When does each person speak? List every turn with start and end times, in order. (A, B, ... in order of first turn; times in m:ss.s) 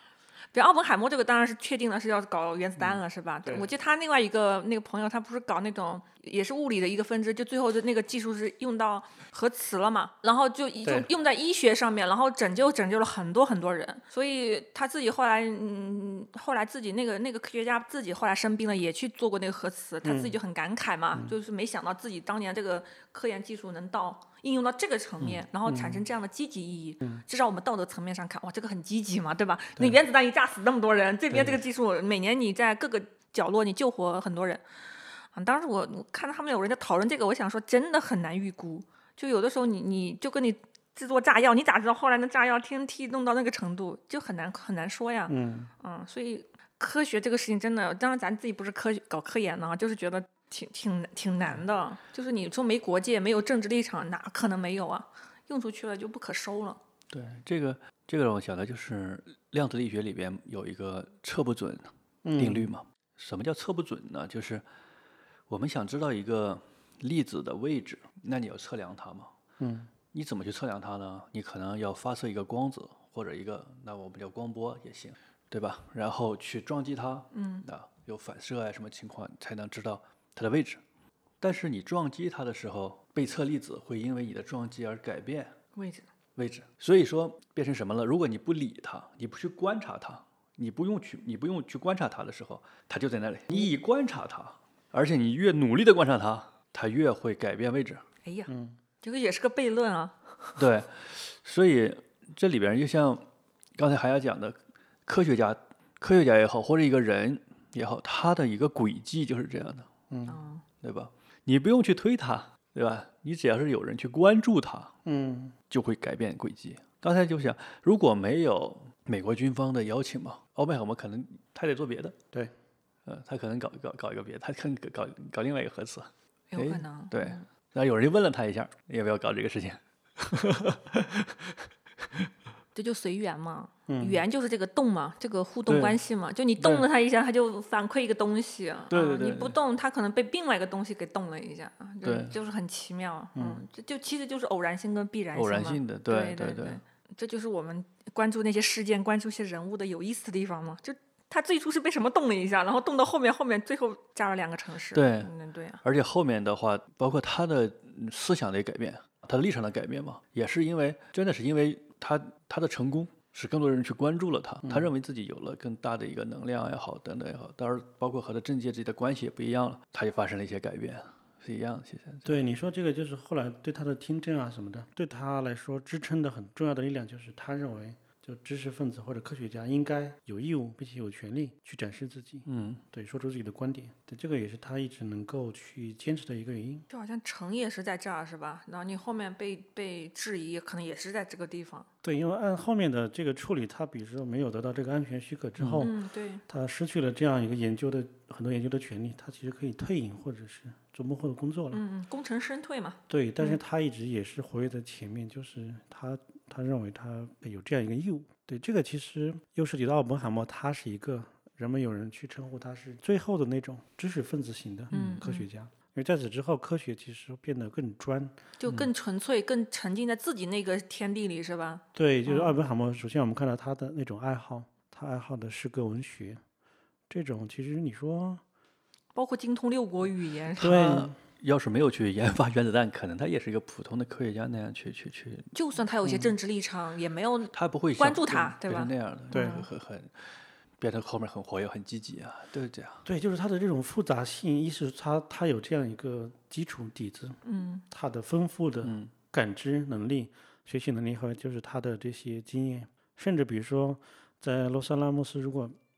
0:00.5-0:34.6 A
0:20.0-0:20.4 B
0:25.7-0:26.0 B
0:31.3-0:31.6 B
0:35.3-0:56.8 A
0:45.3-0:45.7 B
0:57.1-1:04.6 C
1:02.2-1:02.7 B
1:05.5-1:09.3 C
1:09.6-1:09.9 B
1:10.1-1:20.8 C
1:17.3-1:17.7 A
1:21.4-1:25.6 C
1:25.8-1:26.1 A
1:26.4-1:38.0 C
1:38.2-1:38.5 A
1:38.5-1:38.8 B
1:39.0-1:40.5 A
1:40.6-1:43.2 C
1:43.8-1:49.9 C
1:50.1-1:50.4 B
1:50.3-1:50.6 A
1:50.8-1:54.9 C
1:55.0-1:55.6 B
1:55.7-2:02.2 C
2:03.1-2:11.6 C
2:06.5-2:07.4 A
2:12.8-2:35.8 A
2:13.9-2:14.2 B
2:15.7-2:16.0 C
2:16.6-2:16.9 C
2:18.9-2:19.6 C
2:22.0-2:22.3 C
2:23.4-2:23.6 B
2:25.4-2:26.8 C
2:35.0-2:35.3 C
2:35.8-2:52.3 C
2:44.6-2:44.9 B
2:52.2-3:06.9 B
3:02.5-3:02.8 C
3:06.9-3:11.9 A
3:12.0-3:16.0 B
3:15.6-3:15.9 C
3:15.8-3:16.4 A
3:16.5-3:21.8 B
3:21.7-3:23.6 A
3:23.1-3:38.4 B
3:34.9-3:35.2 C
3:34.9-3:35.5 A
3:38.6-3:42.6 A
3:42.0-3:46.4 B
3:47.1-3:48.4 B
3:49.2-3:51.0 A
3:50.6-3:55.5 C
3:50.6-3:51.2 B
3:55.5-3:59.7 A
3:57.5-4:00.3 C
3:59.3-3:59.6 B
4:00.8-4:03.0 C
4:03.0-4:07.4 B
4:07.4-4:07.8 A
4:07.9-4:15.8 B
4:08.8-4:09.1 C